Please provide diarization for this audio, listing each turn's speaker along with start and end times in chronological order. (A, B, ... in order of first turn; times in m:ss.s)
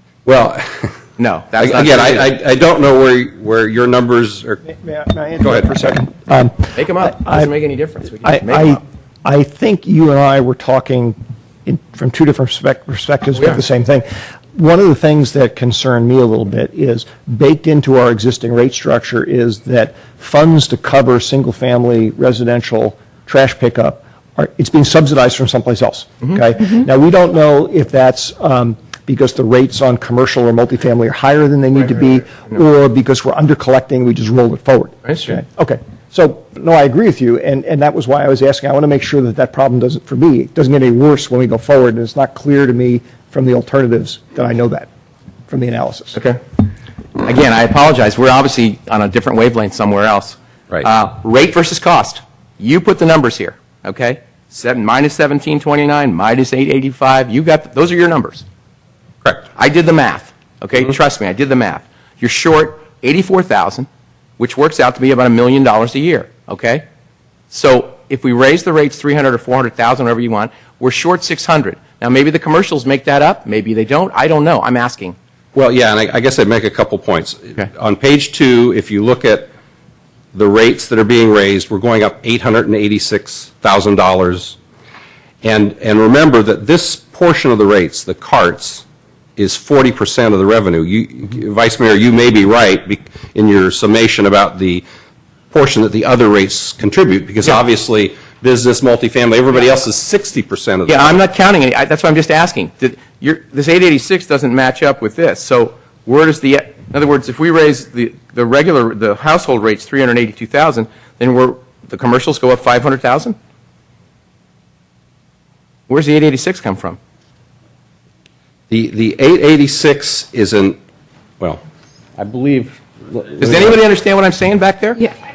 0:00.2-0:01.0 A
0:01.2-0:02.3 B
0:01.6-0:04.6 A
0:04.6-0:07.5 C
0:05.4-0:06.0 A
0:06.7-0:08.8 B
0:08.2-0:44.9 C
0:13.4-0:13.6 B
0:35.0-0:35.4 B
0:45.5-0:46.2 C
0:46.1-0:46.6 B
0:47.2-0:58.4 B
0:59.6-1:03.9 B
1:04.4-1:06.8 B
1:07.5-1:15.2 B
1:15.5-1:19.5 A
1:20.3-1:24.6 A
1:25.4-1:28.8 A
1:29.4-1:34.8 A
1:35.5-1:41.2 A
1:40.8-1:53.4 B
1:55.9-1:57.0 B
1:58.7-2:00.8 A
2:02.2-2:03.8 A
2:03.4-2:05.1 B